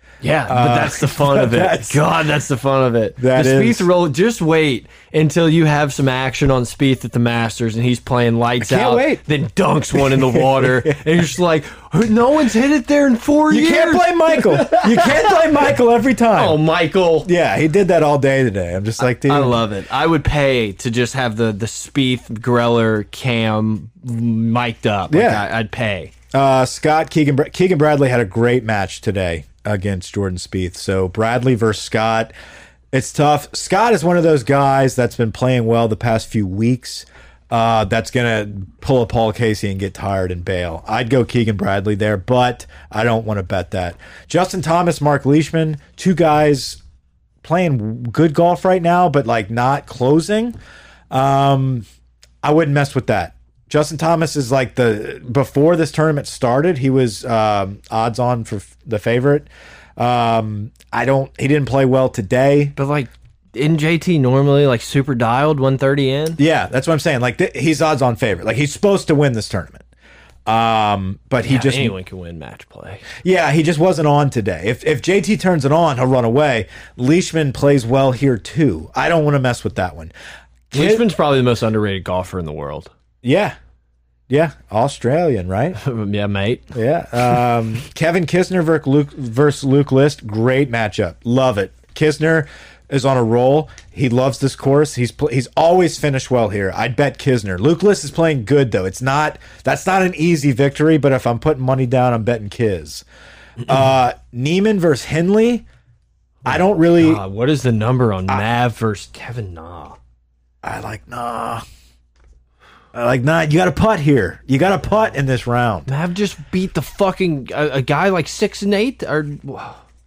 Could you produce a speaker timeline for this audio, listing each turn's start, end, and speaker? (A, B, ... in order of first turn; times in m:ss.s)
0:00.2-0:15.4 A
0:00.5-0:02.1 B
0:03.2-0:03.9 B
0:08.6-0:09.2 B
0:09.9-0:11.0 B
0:13.5-0:16.6 B
0:16.3-0:17.3 A
0:17.2-0:19.6 B
0:19.0-0:26.1 A
0:25.1-0:25.4 B
0:26.3-0:32.3 B
0:32.9-0:46.8 B
0:47.4-0:50.6 B
0:51.1-0:51.9 B
0:52.4-1:02.7 B
1:02.8-1:06.4 A
1:06.4-1:09.8 B
1:10.4-1:11.9 B
1:11.4-1:13.1 A
1:13.2-1:20.1 B
1:20.7-1:21.0 B
1:20.7-1:22.9 A
1:23.2-1:23.6 B
1:24.3-1:25.8 B
1:25.8-1:26.7 A
1:26.7-1:43.0 B
1:43.6-1:45.6 B
1:46.4-1:47.2 B
1:46.9-1:50.0 A
1:50.6-1:51.6 B
1:52.9-1:55.9 B
1:55.9-1:59.8 A